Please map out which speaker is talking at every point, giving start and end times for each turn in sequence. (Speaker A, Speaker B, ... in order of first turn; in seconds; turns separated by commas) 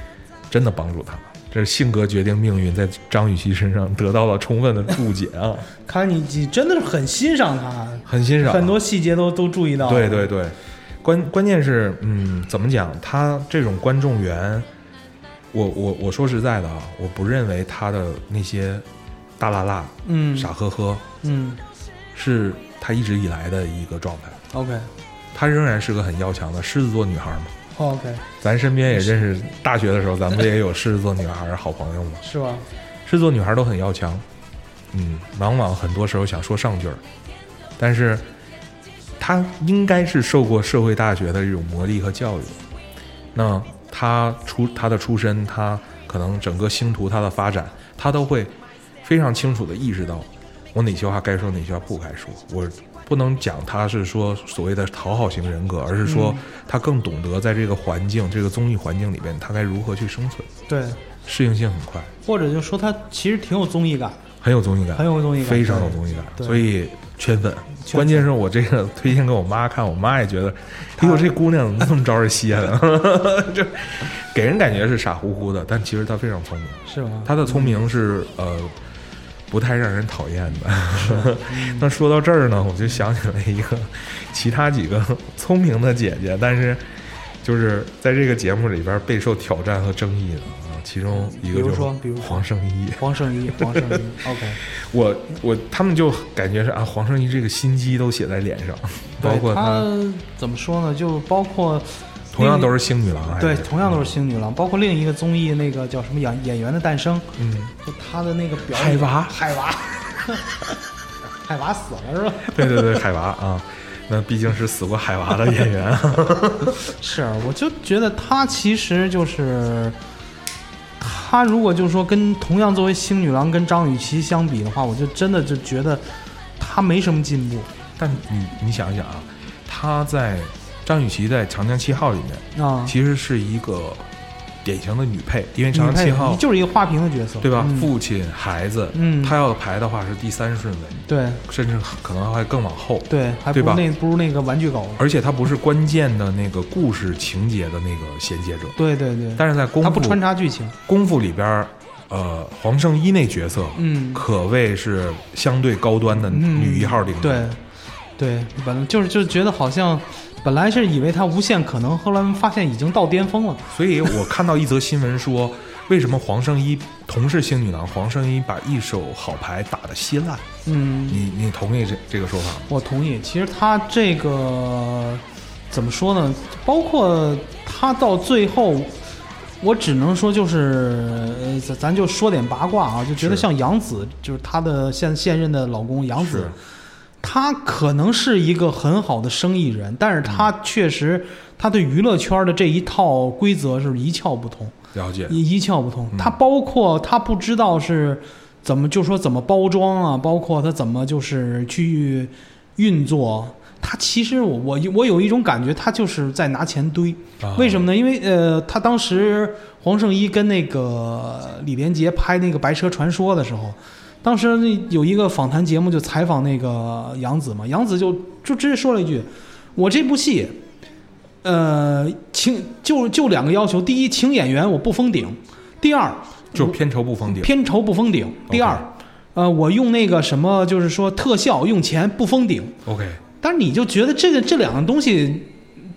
Speaker A: 0.5-5.7, Speaker B: 5.9-10.3, Speaker A: 8.1-8.8, Speaker A: 9.8-14.7, Speaker A: 15.5-18.9, Speaker A: 19.4-21.0, Speaker B: 20.0-20.5, Speaker B: 21.2-21.6, Speaker A: 22.1-24.4, Speaker B: 24.5-24.9, Speaker A: 25.3-27.5, Speaker B: 27.7-28.2, Speaker A: 28.4-32.2, Speaker B: 32.2-32.6, Speaker A: 33.0-34.2, Speaker A: 34.9-37.0, Speaker A: 37.8-38.2, Speaker A: 39.2-42.6, Speaker A: 43.3-60.5, Speaker B: 56.0-56.4, Speaker B: 60.7-61.0, Speaker A: 61.2-62.1, Speaker B: 62.2-64.2, Speaker A: 64.4-78.8, Speaker B: 64.9-66.7, Speaker B: 67.9-68.3, Speaker B: 71.0-71.3, Speaker B: 76.9-77.7, Speaker A: 79.5-93.0, Speaker B: 81.0-81.9, Speaker B: 91.3-92.5, Speaker B: 93.0-94.6, Speaker A: 93.5-94.0, Speaker A: 94.7-99.9, Speaker B: 99.2-102.7, Speaker A: 102.3-104.1, Speaker B: 103.3-107.3, Speaker A: 107.3-107.7, Speaker B: 107.8-110.5, Speaker A: 108.7-109.4, Speaker B: 111.4-113.0, Speaker A: 112.5-116.9, Speaker B: 117.0-120.0, Speaker B: 121.0-127.7, Speaker A: 128.0-134.1, Speaker B: 132.5-132.9, Speaker A: 134.6-136.4, Speaker B: 135.7-137.9, Speaker A: 137.4-143.8, Speaker B: 138.9-139.3, Speaker B: 141.1-141.4, Speaker B: 143.1-145.0, Speaker A: 145.0-148.8, Speaker B: 148.8-150.8, Speaker A: 149.3-150.2, Speaker A: 150.8-157.5, Speaker B: 153.8-154.2, Speaker B: 156.3-157.6, Speaker B: 158.2-163.6, Speaker A: 163.7-170.5, Speaker B: 170.7-171.2, Speaker A: 171.1-172.7, Speaker B: 172.7-179.0, Speaker B: 179.6-186.5, Speaker A: 183.2-183.5, Speaker A: 186.2-186.5, Speaker B: 187.2-194.7, Speaker A: 194.9-195.4, Speaker B: 195.3-220.6, Speaker A: 207.4-207.9, Speaker B: 221.4-232.8, Speaker A: 226.5-227.5, Speaker A: 228.5-228.8, Speaker A: 232.8-233.2, Speaker B: 233.4-235.6